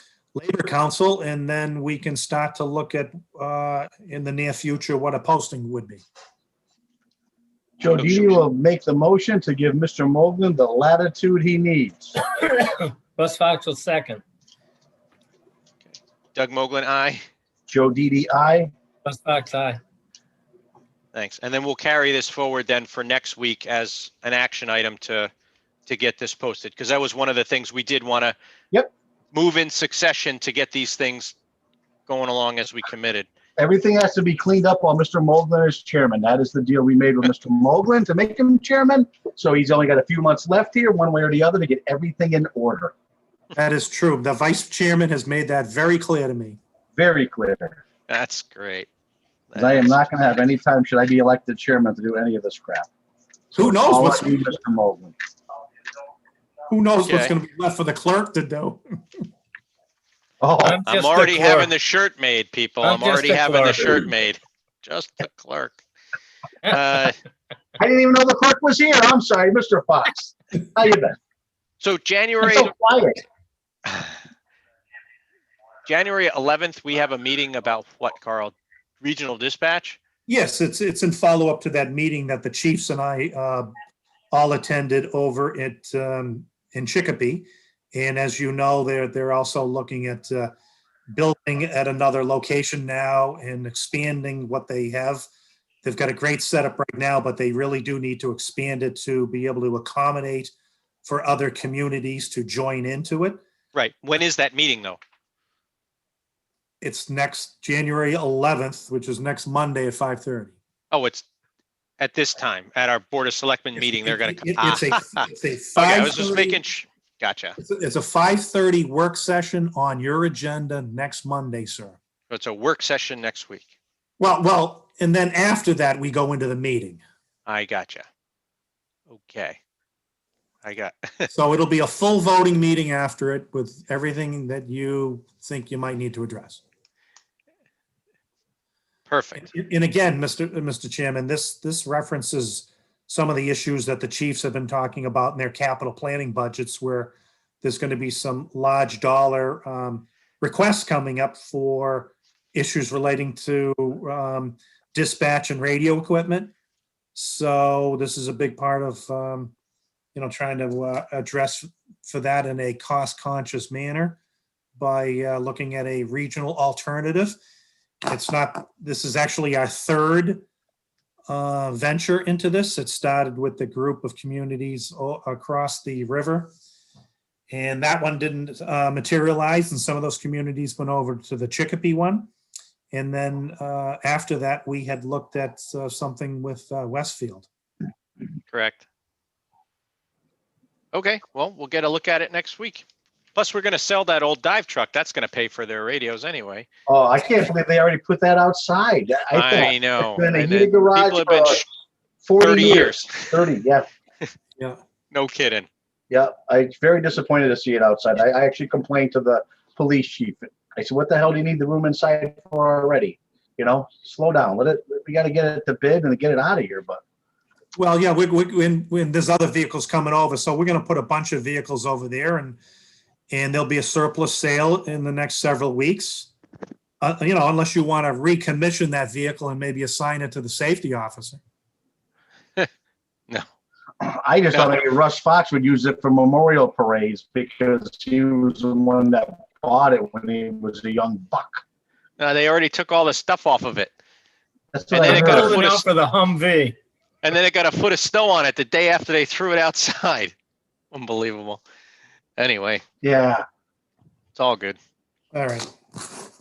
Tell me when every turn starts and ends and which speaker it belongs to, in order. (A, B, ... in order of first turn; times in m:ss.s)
0:00.3-0:06.0 A
0:07.8-0:12.2 B
0:07.8-0:08.4 C
0:12.3-0:14.2 D
0:15.8-0:17.2 C
0:17.7-0:18.7 B
0:19.0-0:19.8 D
0:21.1-0:25.3 C
0:25.9-0:28.3 C
0:29.3-0:31.3 C
0:32.1-0:33.3 C
0:33.6-0:42.9 B
0:43.5-0:46.6 A
0:47.0-0:47.8 B
0:48.1-0:48.9 C
0:49.5-0:49.9 C
0:49.6-0:52.9 B
0:53.5-0:55.1 B
0:53.5-0:54.4 A
0:56.7-0:58.8 A
0:57.1-0:57.3 C
1:00.4-1:00.8 B
1:00.6-1:01.7 D
1:00.8-1:05.8 C
1:02.8-1:04.0 D
1:06.6-1:07.1 C
1:07.8-1:11.2 B
1:11.8-1:12.7 C
1:12.4-1:13.2 B
1:15.9-1:20.0 C
1:20.3-1:23.7 A
1:24.3-1:30.5 A
1:31.1-1:35.2 A
1:35.8-1:40.5 A
1:41.0-1:43.4 A
1:43.7-1:45.0 C
1:46.8-1:50.6 A
1:50.9-1:51.2 C
1:52.0-1:57.6 C
1:53.8-1:56.6 A
1:57.6-2:02.0 A
2:02.3-2:03.7 C
2:04.2-2:07.0 A
2:07.4-2:08.0 C
2:09.1-2:09.6 C
2:10.6-2:11.3 C
2:11.3-2:16.6 A
2:19.1-2:19.5 C
2:19.4-2:36.5 A
2:37.1-2:39.5 A
2:40.1-2:44.2 A
2:44.8-2:47.4 A
2:48.1-2:50.4 A
2:51.3-2:56.5 A
2:57.5-3:02.3 A
3:02.9-3:07.5 A
3:08.5-3:08.8 C
3:10.9-3:12.8 C
3:13.4-3:16.6 C
3:16.9-3:21.6 B
3:19.3-3:21.6 C
3:22.2-3:23.9 B
3:22.4-3:23.5 C
3:25.1-3:25.7 C
3:26.1-3:37.0 B
3:37.8-3:42.6 A
3:43.3-3:46.3 A
3:47.0-3:51.4 A
3:54.0-4:01.6 B
3:54.5-3:54.8 C
4:02.2-4:03.9 C
4:04.7-4:05.6 B
4:04.9-4:06.8 D
4:04.9-4:05.8 C
4:07.2-4:10.3 C
4:10.9-4:11.6 C
4:12.4-4:12.8 C
4:13.0-4:13.4 B
4:14.3-4:14.8 C
4:15.3-4:15.7 A